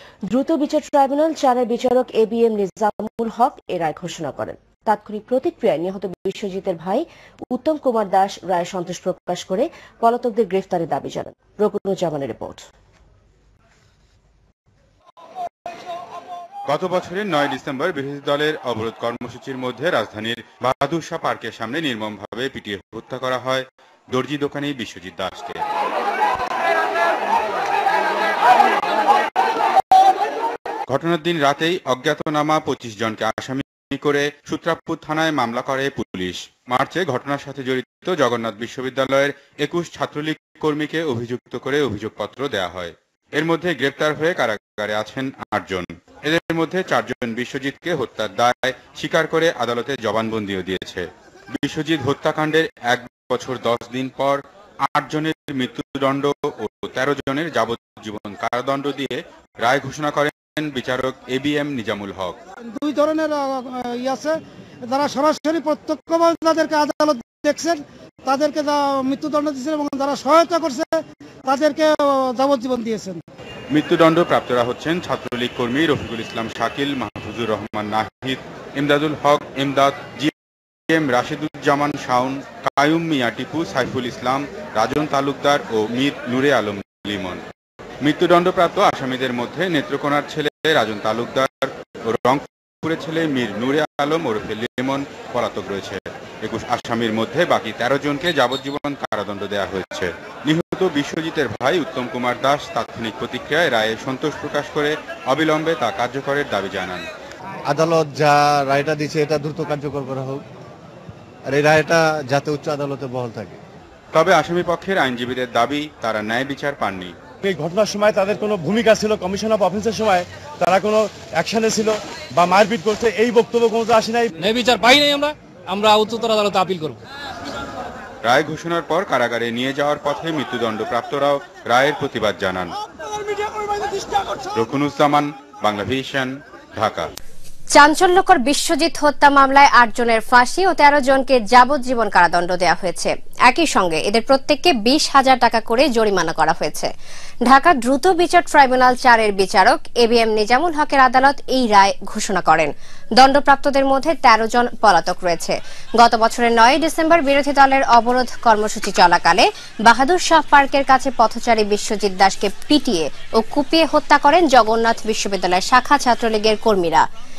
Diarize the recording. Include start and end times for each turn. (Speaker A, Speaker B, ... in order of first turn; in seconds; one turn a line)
Speaker A: 0.3-12.7
Speaker B: 16.7-25.6
Speaker B: 30.9-62.4
Speaker C: 62.7-73.2
Speaker B: 73.7-80.3
Speaker B: 80.9-87.4
Speaker B: 88.0-107.1
Speaker D: 107.7-110.5
Speaker D: 111.5-113.6
Speaker B: 114.1-117.2
Speaker E: 117.4-124.4
Speaker F: 124.5-127.0
Speaker B: 128.2-132.8
Speaker B: 134.5-137.1
Speaker G: 137.8-146.9
Speaker G: 147.4-167.1